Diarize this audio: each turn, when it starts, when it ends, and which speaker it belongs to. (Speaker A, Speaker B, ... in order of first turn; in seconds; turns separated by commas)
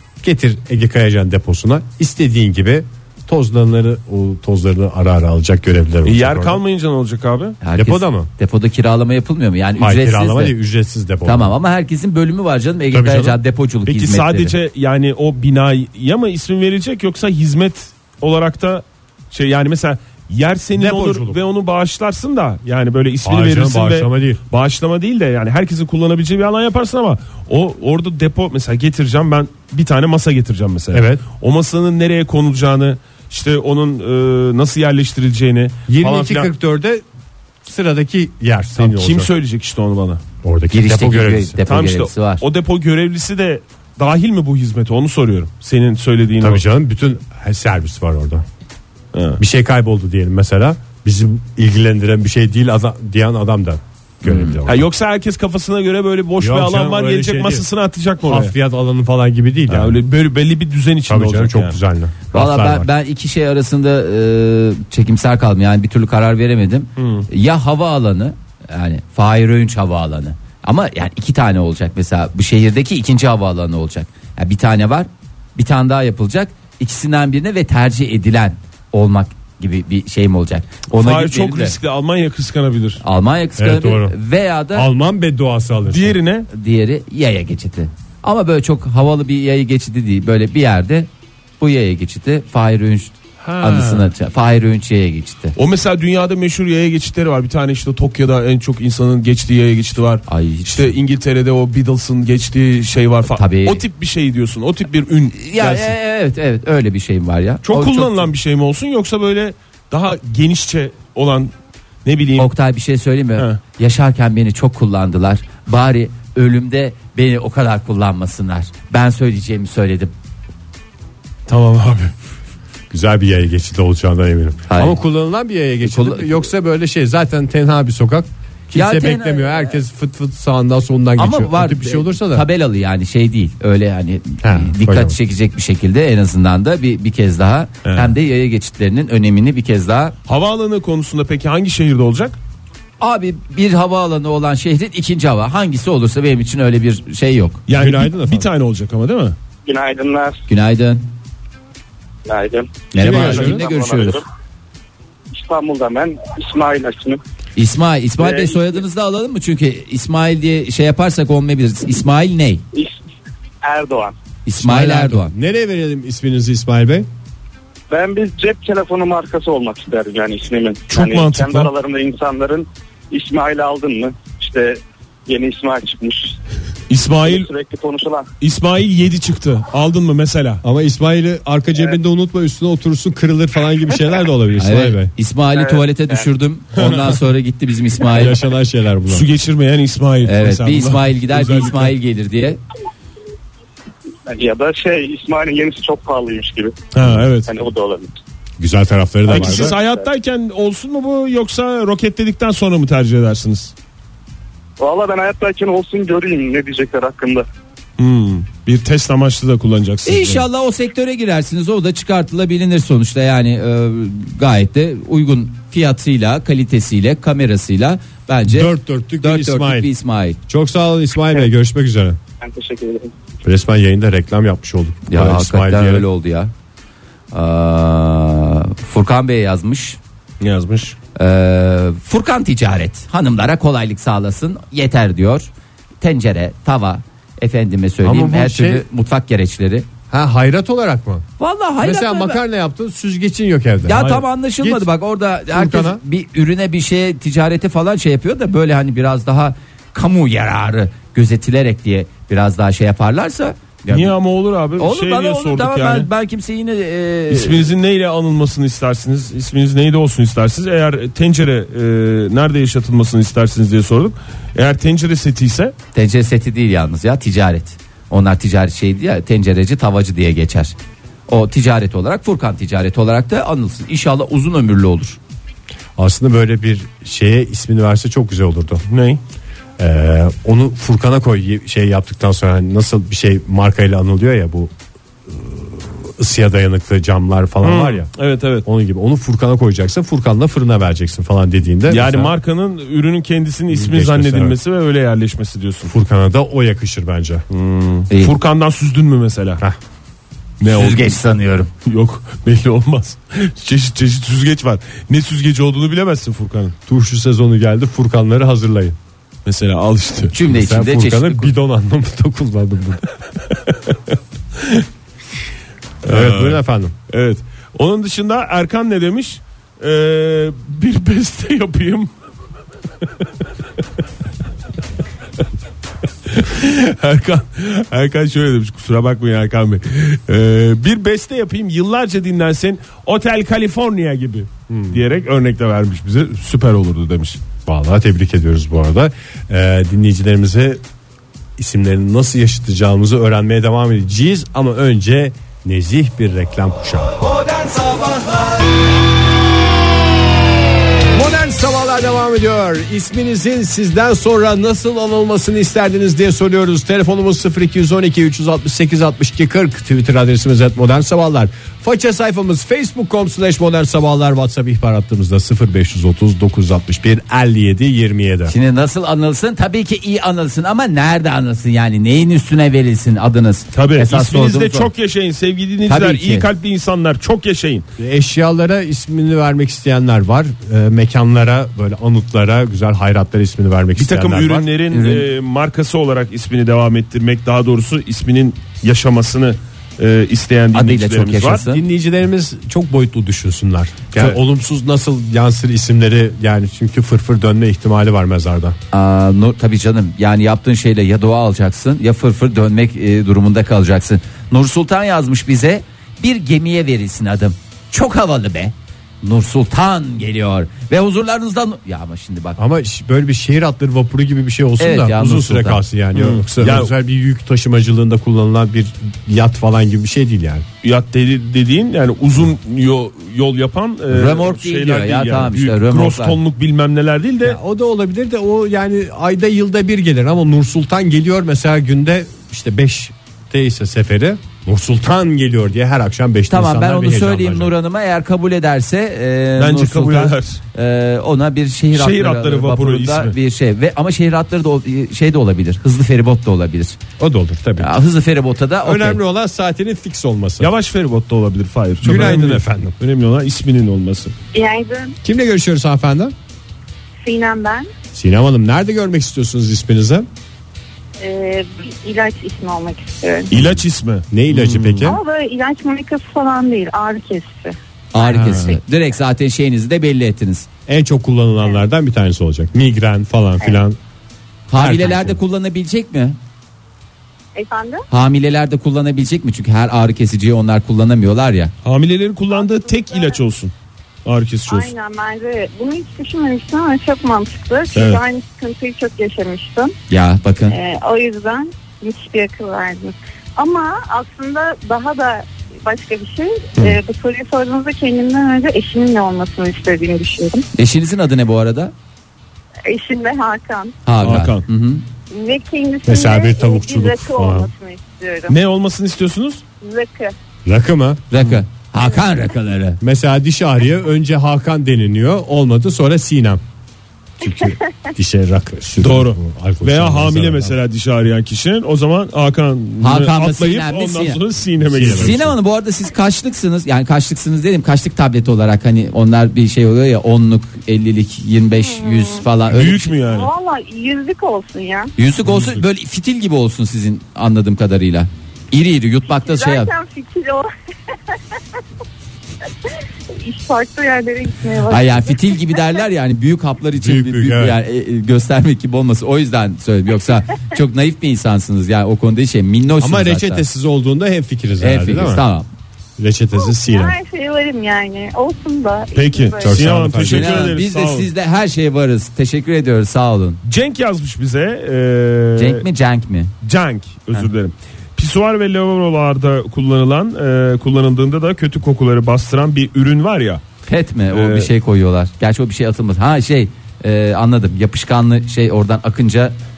Speaker A: 0.2-6.6, Speaker B: 6.0-7.6, Speaker C: 7.6-10.6, Speaker A: 7.8-8.3, Speaker A: 9.8-11.5, Speaker C: 11.2-14.6, Speaker A: 12.9-13.4, Speaker B: 13.9-36.5, Speaker A: 20.8-21.4, Speaker A: 23.2-24.4, Speaker A: 30.9-31.2, Speaker A: 35.9-37.0, Speaker A: 37.6-39.3, Speaker B: 38.8-40.2, Speaker A: 40.4-41.6, Speaker C: 40.7-42.4, Speaker B: 41.7-46.6, Speaker A: 46.4-48.5, Speaker B: 49.1-49.4, Speaker A: 49.4-54.9, Speaker B: 54.6-58.5, Speaker A: 56.4-57.6, Speaker A: 58.2-60.0, Speaker B: 59.7-61.8, Speaker A: 61.1-62.9, Speaker C: 62.3-81.8, Speaker B: 67.0-67.3, Speaker B: 81.0-83.0, Speaker C: 83.0-84.9, Speaker A: 83.6-84.2, Speaker A: 84.7-86.2, Speaker B: 85.9-86.5, Speaker C: 86.5-91.1, Speaker C: 91.6-95.6, Speaker B: 93.4-94.1, Speaker B: 95.6-105.9, Speaker C: 100.3-101.0, Speaker C: 103.3-103.8, Speaker C: 105.3-108.3, Speaker B: 107.7-111.5, Speaker B: 112.0-112.5, Speaker C: 112.4-120.1, Speaker B: 121.5-122.1, Speaker A: 122.9-132.5, Speaker C: 124.7-125.0, Speaker C: 125.8-126.4, Speaker C: 128.7-129.8, Speaker C: 131.2-140.2, Speaker A: 134.4-135.2, Speaker B: 137.8-138.1, Speaker B: 140.3-142.4, Speaker C: 143.0-147.6, Speaker B: 147.7-149.4, Speaker A: 147.7-148.5, Speaker D: 149.7-150.4, Speaker C: 150.5-151.1, Speaker D: 152.3-154.2, Speaker C: 152.9-154.2, Speaker A: 152.9-153.7, Speaker D: 155.3-157.2, Speaker C: 157.6-162.6, Speaker D: 158.2-158.8, Speaker D: 163.6-164.1, Speaker C: 164.4-165.3, Speaker A: 164.6-167.1, Speaker D: 167.9-176.3, Speaker B: 170.9-171.7, Speaker B: 176.9-177.5, Speaker D: 177.2-178.3, Speaker B: 178.4-180.6, Speaker A: 180.6-185.1, Speaker C: 184.6-188.4, Speaker D: 185.6-186.2, Speaker A: 188.0-189.3, Speaker B: 189.1-191.9, Speaker C: 190.2-192.6, Speaker D: 194.3-196.8, Speaker B: 196.9-197.6, Speaker D: 197.5-198.1, Speaker A: 198.6-199.8, Speaker B: 199.3-203.7, Speaker D: 199.6-200.0, Speaker D: 204.8-207.4, Speaker B: 208.0-210.5, Speaker C: 210.1-220.4, Speaker A: 218.5-219.9, Speaker A: 220.5-222.2, Speaker D: 222.4-223.1, Speaker A: 223.4-226.1, Speaker C: 225.1-226.5, Speaker C: 227.3-230.0, Speaker B: 230.4-231.0, Speaker C: 231.2-235.5, Speaker C: 236.0-239.9, Speaker A: 238.0-238.8, Speaker A: 240.1-241.2, Speaker C: 241.4-242.4, Speaker A: 241.8-244.9, Speaker C: 243.8-254.2, Speaker A: 245.5-246.0, Speaker B: 253.9-256.1, Speaker C: 254.8-257.7, Speaker B: 257.3-265.7, Speaker C: 265.9-270.8, Speaker C: 271.3-275.2, Speaker A: 276.0-278.8, Speaker B: 278.9-279.2, Speaker A: 279.8-284.7, Speaker A: 285.3-288.1, Speaker B: 287.6-288.7, Speaker A: 288.6-292.3, Speaker B: 291.9-295.9, Speaker A: 293.7-294.6, Speaker A: 295.9-297.4, Speaker B: 297.5-299.6, Speaker B: 300.6-301.2, Speaker C: 300.7-301.7, Speaker B: 301.9-306.8, Speaker A: 306.9-309.0, Speaker B: 309.5-310.4, Speaker C: 310.3-311.5, Speaker A: 310.4-313.0, Speaker B: 314.6-314.9, Speaker A: 316.1-316.9, Speaker B: 316.1-322.1, Speaker B: 326.3-337.4, Speaker A: 334.7-335.0, Speaker A: 337.7-340.8, Speaker A: 341.6-347.2, Speaker C: 347.6-348.3, Speaker A: 351.1-368.5, Speaker C: 368.5-374.9, Speaker B: 373.7-377.9, Speaker C: 375.9-376.5, Speaker A: 378.0-384.7, Speaker B: 384.0-391.6, Speaker C: 384.9-385.3, Speaker C: 390.7-391.8, Speaker A: 391.7-398.8, Speaker C: 398.9-412.6, Speaker A: 412.6-420.6, Speaker C: 414.8-415.8, Speaker B: 416.1-416.9, Speaker B: 420.8-427.6, Speaker C: 424.1-426.4, Speaker A: 427.4-437.7, Speaker C: 436.5-447.0, Speaker B: 439.6-440.6, Speaker B: 441.9-443.4, Speaker A: 447.2-448.0, Speaker C: 447.8-449.2, Speaker A: 448.8-450.7, Speaker B: 450.6-454.3, Speaker A: 452.0-452.9, Speaker E: 454.5-455.2, Speaker A: 455.2-456.3, Speaker E: 457.2-457.9, Speaker A: 458.1-460.3, Speaker E: 461.2-463.5, Speaker B: 463.5-465.2, Speaker A: 463.5-465.2, Speaker E: 465.0-468.8, Speaker C: 468.1-470.7, Speaker B: 468.4-468.7, Speaker A: 470.9-474.0, Speaker C: 474.7-476.4, Speaker A: 474.8-475.4, Speaker E: 477.6-478.1, Speaker C: 478.1-481.7, Speaker B: 481.8-483.7, Speaker E: 482.6-483.4, Speaker B: 484.2-484.9, Speaker E: 484.7-489.9, Speaker B: 487.9-488.2, Speaker C: 490.1-490.8, Speaker E: 490.7-500.7, Speaker C: 500.8-501.9, Speaker E: 502.9-503.9, Speaker C: 504.1-505.0, Speaker B: 504.2-504.6, Speaker E: 505.3-508.6, Speaker A: 506.1-507.7, Speaker B: 508.5-509.6, Speaker E: 509.8-510.4, Speaker A: 510.6-511.2, Speaker C: 511.3-513.0, Speaker A: 513.0-516.6, Speaker A: 517.4-520.8, Speaker E: 517.4-517.7, Speaker B: 519.0-525.5, Speaker C: 523.0-524.4, Speaker A: 524.8-525.5, Speaker C: 525.0-533.2, Speaker E: 531.8-532.4, Speaker B: 532.7-533.5, Speaker E: 533.2-535.1, Speaker C: 535.2-539.9, Speaker B: 535.5-535.8, Speaker E: 539.3-540.7, Speaker E: 543.3-545.5, Speaker C: 544.9-553.6, Speaker A: 547.0-547.8, Speaker A: 553.0-555.4, Speaker C: 554.8-555.7, Speaker A: 556.2-557.2, Speaker E: 556.6-560.0, Speaker B: 559.1-561.3, Speaker A: 559.6-560.7, Speaker C: 560.2-563.6, Speaker B: 563.6-565.9, Speaker C: 565.6-566.5, Speaker B: 566.6-573.6, Speaker C: 573.9-579.6, Speaker B: 574.3-574.7